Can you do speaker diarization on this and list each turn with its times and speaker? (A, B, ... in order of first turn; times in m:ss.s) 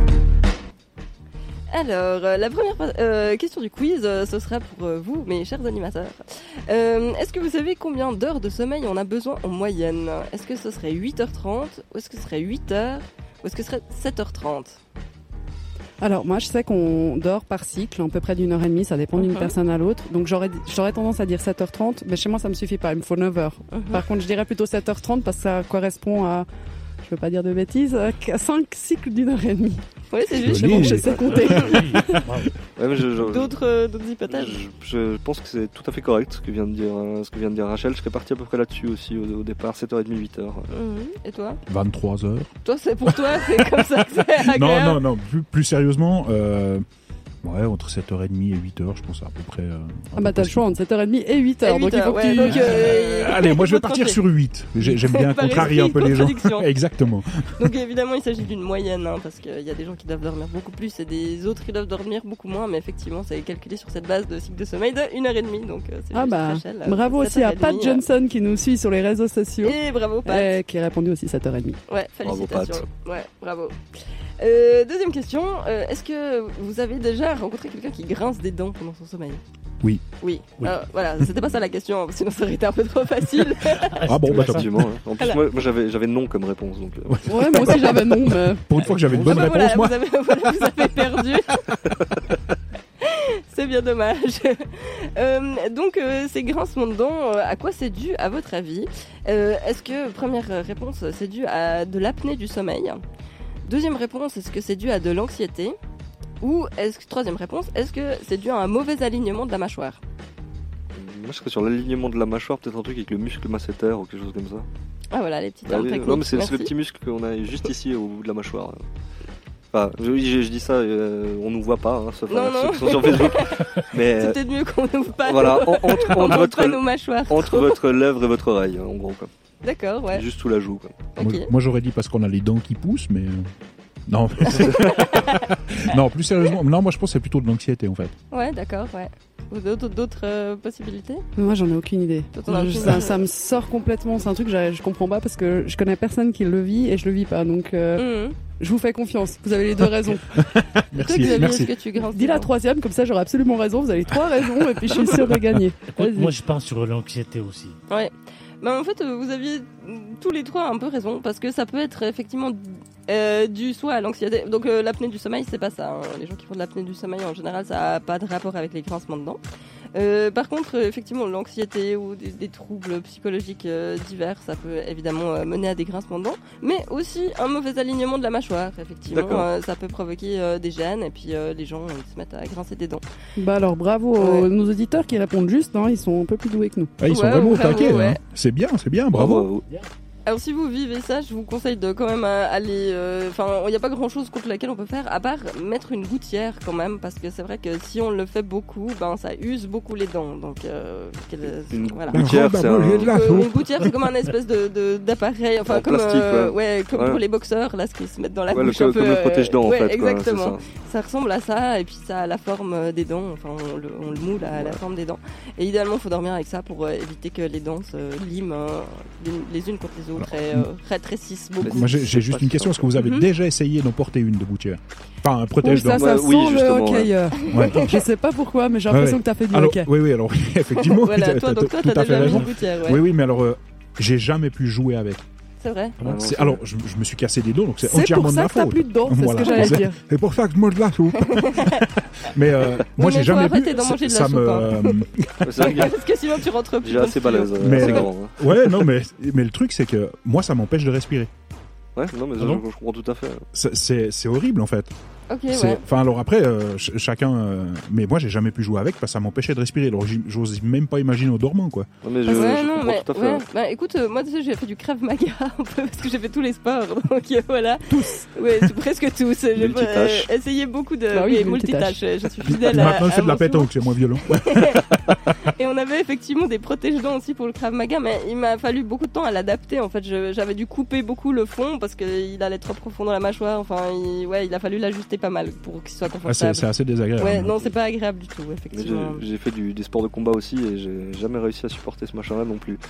0:01.7-0:14.8 A
0:16.0-0:26.5 B
0:19.2-0:19.5 A
0:23.7-0:24.0 A
0:27.0-0:29.8 B
0:30.1-0:31.7 A
0:30.4-0:32.3 B
0:30.4-0:31.8 C
0:31.2-0:32.5 D
0:32.8-0:33.6 E
0:33.2-0:34.6 A
0:34.3-0:40.7 E
0:40.7-0:41.6 A
0:41.7-0:42.5 C
0:42.6-0:45.0 A
0:43.1-0:46.8 C
0:47.4-0:50.6 C
0:50.2-0:53.0 B
0:51.6-0:54.2 A
0:52.3-0:57.6 C
0:54.8-0:56.7 A
0:57.6-1:08.0 A
1:06.1-1:11.8 B
1:09.6-1:10.6 A
1:11.9-1:19.4 A
1:12.2-1:12.8 E
1:20.2-1:23.9 A
1:23.9-1:24.9 D
1:24.0-1:24.9 C
1:24.3-1:27.3 E
1:27.0-1:30.0 C
1:27.2-1:28.6 B
1:28.8-1:29.4 D
1:29.2-1:31.6 A
1:31.7-1:32.0 C
1:33.0-1:43.0 A
1:43.6-1:45.8 A
1:46.4-1:50.0 A
1:50.9-1:54.7 E
1:55.1-1:56.7 A
1:55.7-1:58.8 E
1:59.7-2:04.4 E
2:02.3-2:07.8 A
2:05.2-2:09.3 E
2:09.6-2:10.2 A
2:10.1-2:11.1 E
2:11.2-2:11.5 A
2:11.2-2:13.5 C
2:14.1-2:18.1 C
2:14.6-2:14.9 E
2:14.6-2:15.5 A
2:18.3-2:21.2 A
2:21.4-2:30.3 B
2:22.3-2:23.2 A
2:28.0-2:28.4 A
2:29.8-2:31.7 C
2:31.0-2:32.5 A
2:31.1-2:36.3 B
2:35.9-2:37.8 D
2:37.9-2:49.4 A
2:49.9-3:03.0 A
2:59.1-2:59.5 E
3:03.4-3:06.9 B
3:04.2-3:04.5 A
3:07.0-3:09.5 C
3:07.1-3:08.2 A
3:09.1-3:09.6 E
3:10.2-3:22.2 A
3:21.7-3:23.4 E
3:22.1-3:24.3 C
3:23.0-3:43.3 A
3:25.7-3:27.2 E
3:28.5-3:30.6 E
3:34.5-3:34.8 E
3:40.2-3:40.7 C
3:41.6-3:42.8 E
3:41.6-3:46.1 C
3:45.6-3:49.9 B
3:45.9-3:47.1 E
3:47.5-3:47.8 C
3:48.9-3:55.2 C
3:50.7-3:53.0 A
3:52.2-3:52.5 D
3:55.6-3:56.0 A
3:56.0-3:56.2 D
3:56.0-3:56.6 E
3:56.1-4:05.7 C
3:57.8-4:00.0 B
3:59.4-3:59.8 A
4:01.3-4:01.8 A
4:03.0-4:05.0 A
4:05.4-4:06.0 E
4:05.6-4:08.0 A
4:06.8-4:08.9 E
4:07.6-4:11.3 C
4:12.0-4:13.4 E
4:13.5-4:14.9 C
4:15.3-4:15.8 A
4:15.5-4:21.9 C
4:22.0-4:23.4 E
4:22.3-4:33.7 A
4:29.5-4:30.3 E
4:31.1-4:32.0 B
4:32.4-4:35.3 C
4:34.4-4:34.8 A
4:35.4-4:49.2 A
4:46.2-4:47.5 C
4:48.7-4:52.8 E